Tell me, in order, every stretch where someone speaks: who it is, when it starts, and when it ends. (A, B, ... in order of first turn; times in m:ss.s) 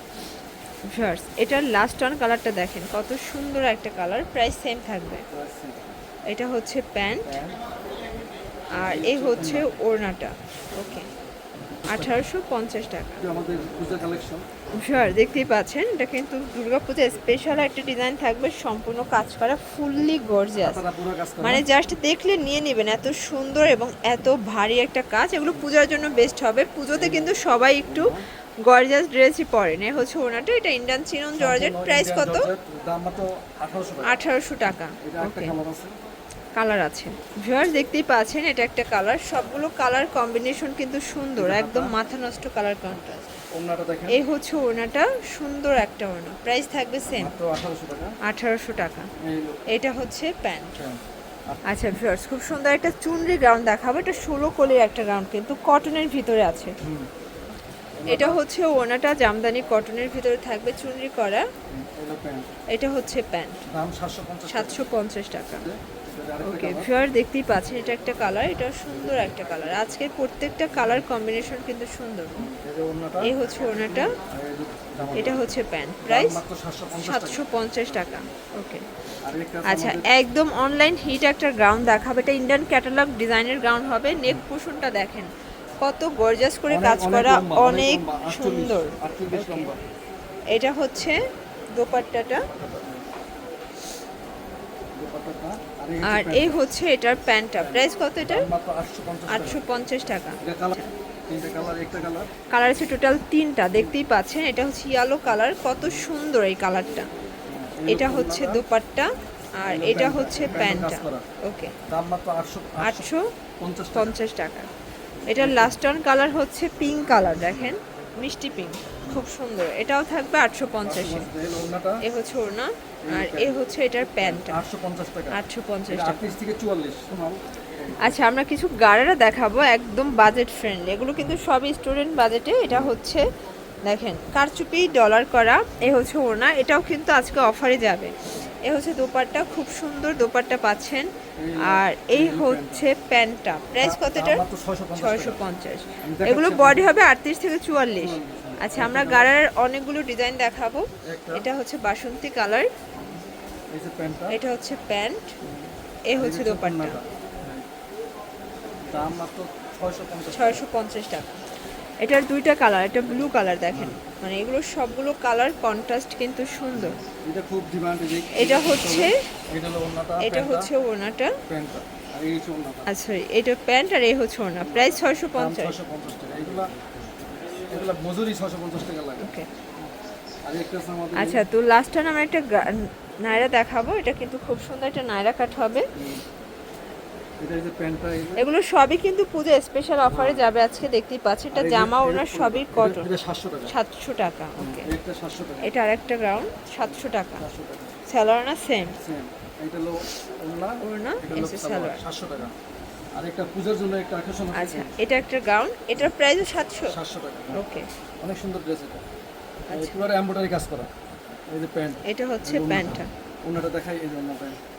0:00.9-0:05.2 A
0:05.3-0:05.9 B
0:06.3-0:07.4 A
0:07.2-0:07.6 B
0:08.7-0:11.1 A
0:08.8-0:09.7 B
0:11.8-0:12.2 B
0:11.9-0:13.3 A
0:13.2-0:14.4 B
0:14.8-0:20.8 A
0:20.6-0:21.6 B
0:21.4-0:32.5 A
0:26.9-0:28.2 B
0:31.4-0:34.2 B
0:34.0-0:35.5 A
0:35.0-0:35.9 B
0:36.5-0:43.3 A
0:41.3-0:42.0 B
0:43.5-0:44.2 B
0:44.1-0:47.3 A
0:47.1-0:48.2 B
0:48.2-0:49.1 A
0:49.2-0:49.6 B
0:49.7-0:50.8 A
0:50.8-0:51.6 B
0:51.6-0:56.8 A
0:56.8-0:57.1 B
0:58.0-0:58.4 B
0:58.1-1:01.5 A
1:01.7-1:02.5 B
1:02.7-1:03.6 A
1:03.7-1:04.9 B
1:04.5-1:05.7 A
1:05.5-1:06.9 B
1:06.4-1:12.5 A
1:12.4-1:13.4 B
1:13.2-1:14.2 A
1:14.2-1:18.3 B
1:15.1-1:16.4 A
1:16.9-1:18.8 A
1:19.2-1:20.1 B
1:19.6-1:25.3 A
1:25.8-1:29.7 A
1:26.7-1:29.8 B
1:30.5-1:31.2 A
1:31.7-1:32.5 A
1:32.4-1:33.0 B
1:34.9-1:36.6 B
1:36.0-1:38.5 A
1:37.6-1:39.6 B
1:39.3-1:40.9 A
1:40.4-1:40.8 B
1:41.3-1:42.3 B
1:42.5-1:47.1 A
1:47.5-1:48.6 B
1:47.9-1:51.8 A
1:49.6-1:51.2 B
1:51.9-1:54.1 B
1:52.8-1:53.3 A
1:53.9-1:54.7 A
1:55.2-1:55.8 B
1:55.3-2:01.3 A
1:57.4-1:57.7 B
2:00.8-2:02.0 B
2:02.0-2:04.6 A
2:03.0-2:08.2 B
2:05.3-2:06.3 A
2:08.0-2:13.2 A
2:13.8-2:24.4 A
2:21.4-2:23.0 B
2:23.8-2:25.4 B
2:25.0-2:32.7 A
2:26.0-2:26.9 B
2:28.0-2:29.3 B
2:31.0-2:31.5 B
2:33.7-2:34.4 B
2:34.3-2:35.3 A
2:35.4-2:37.6 B
2:36.1-2:37.0 A
2:38.9-2:40.6 B
2:40.3-2:41.4 A
2:42.0-2:47.0 A
2:43.0-2:44.0 B
2:46.7-2:50.7 B
2:48.3-2:49.2 A
2:50.2-2:51.4 A
2:51.5-2:52.9 B
2:52.9-2:55.8 A
2:54.6-2:56.7 B
2:57.7-2:59.3 B
2:59.2-2:59.5 A
3:00.4-3:01.4 B
3:01.2-3:05.9 A
3:05.9-3:06.2 B
3:07.4-3:08.4 B
3:08.4-3:13.1 A
3:10.1-3:10.4 B
3:11.5-3:13.7 B
3:13.7-3:14.9 A
3:14.6-3:15.7 B
3:15.6-3:17.4 A
3:17.4-3:18.0 B
3:18.1-3:19.0 A
3:19.0-3:22.5 B
3:20.8-3:22.0 A
3:23.1-3:24.9 B
3:24.5-3:27.0 A
3:26.8-3:27.6 B
3:27.5-3:27.9 A
3:28.2-3:29.0 B
3:29.7-3:30.0 A
3:29.7-3:30.9 B
3:31.5-3:34.6 B
3:32.0-3:33.1 A